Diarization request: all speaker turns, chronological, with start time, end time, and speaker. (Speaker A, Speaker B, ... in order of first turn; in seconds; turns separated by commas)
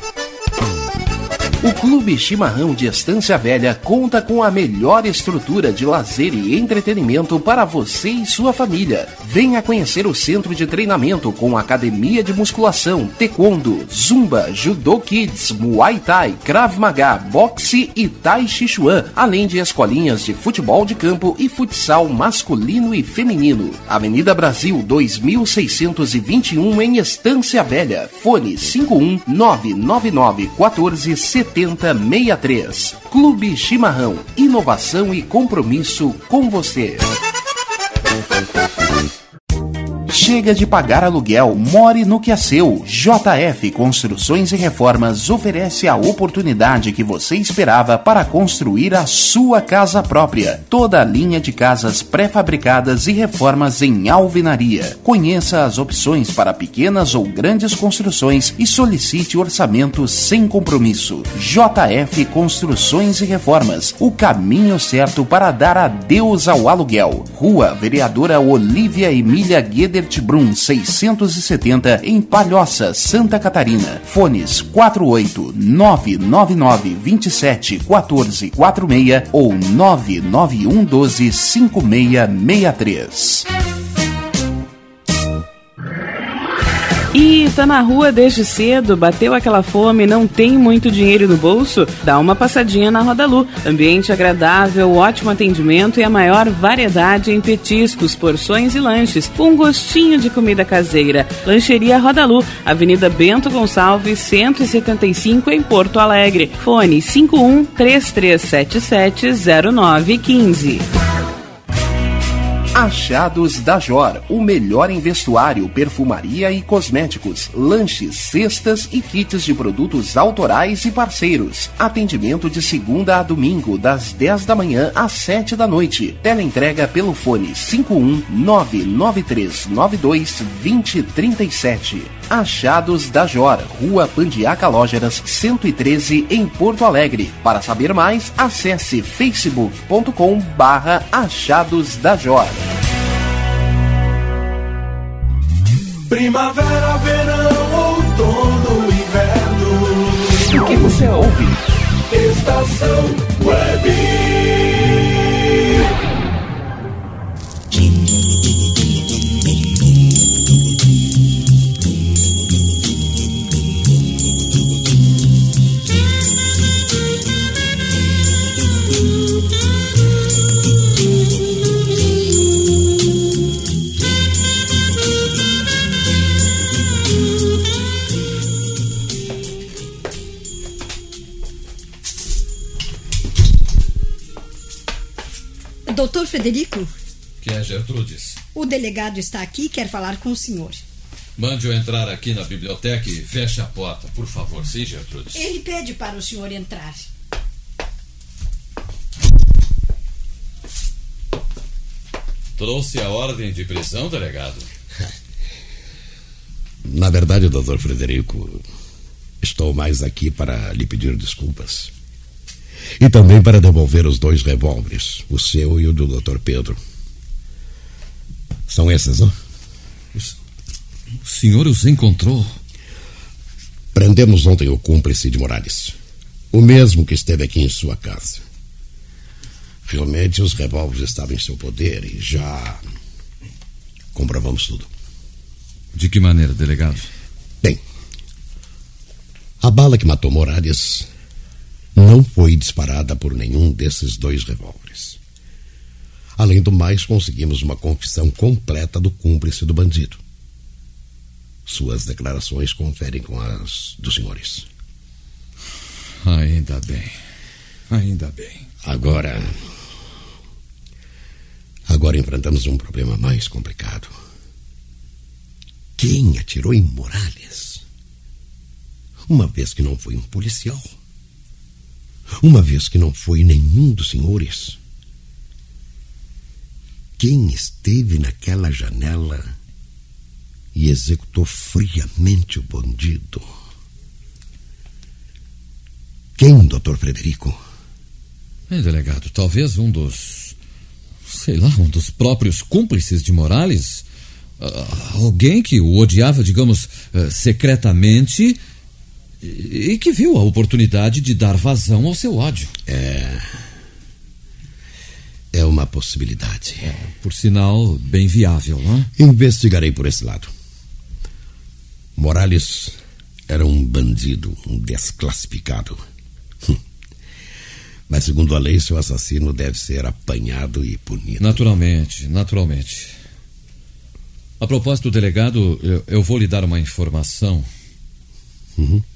Speaker A: 1.6-37.1, Speaker A: 40.1-83.5, Speaker B: 87.1-110.8, Speaker A: 112.7-142.6, Speaker C: 146.1-150.9, Speaker A: 150.5-151.6, Speaker C: 152.1-155.0, Speaker D: 185.9-186.9, Speaker E: 187.4-188.4, Speaker D: 188.5-190.8, Speaker E: 191.4-195.4, Speaker D: 195.3-197.1, Speaker E: 202.6-204.7, Speaker F: 206.8-208.6, Speaker F: 209.4-211.9, Speaker F: 213.0-216.8, Speaker F: 218.7-219.3, Speaker E: 221.2-222.6, Speaker F: 223.9-225.9, Speaker F: 226.5-228.4, Speaker F: 229.9-232.8, Speaker F: 234.1-234.9, Speaker E: 235.9-237.1, Speaker F: 239.6-241.1, Speaker F: 241.9-245.2, Speaker F: 246.4-250.2, Speaker F: 251.7-254.7, Speaker E: 256.2-257.1, Speaker E: 257.9-258.7, Speaker F: 258.8-259.6, Speaker F: 261.9-264.1, Speaker F: 266.0-267.8, Speaker F: 269.3-270.9, Speaker F: 272.4-274.8, Speaker F: 277.2-279.5, Speaker F: 280.7-283.5, Speaker F: 286.4-287.6, Speaker E: 288.7-290.5, Speaker E: 291.2-294.0, Speaker E: 294.6-298.6, Speaker E: 299.4-302.7, Speaker F: 302.9-303.6, Speaker F: 305.5-306.9, Speaker E: 306.8-309.1, Speaker F: 309.1-310.5, Speaker F: 312.1-316.0, Speaker F: 318.1-321.6, Speaker E: 321.4-323.1, Speaker E: 324.6-327.7, Speaker F: 328.8-329.0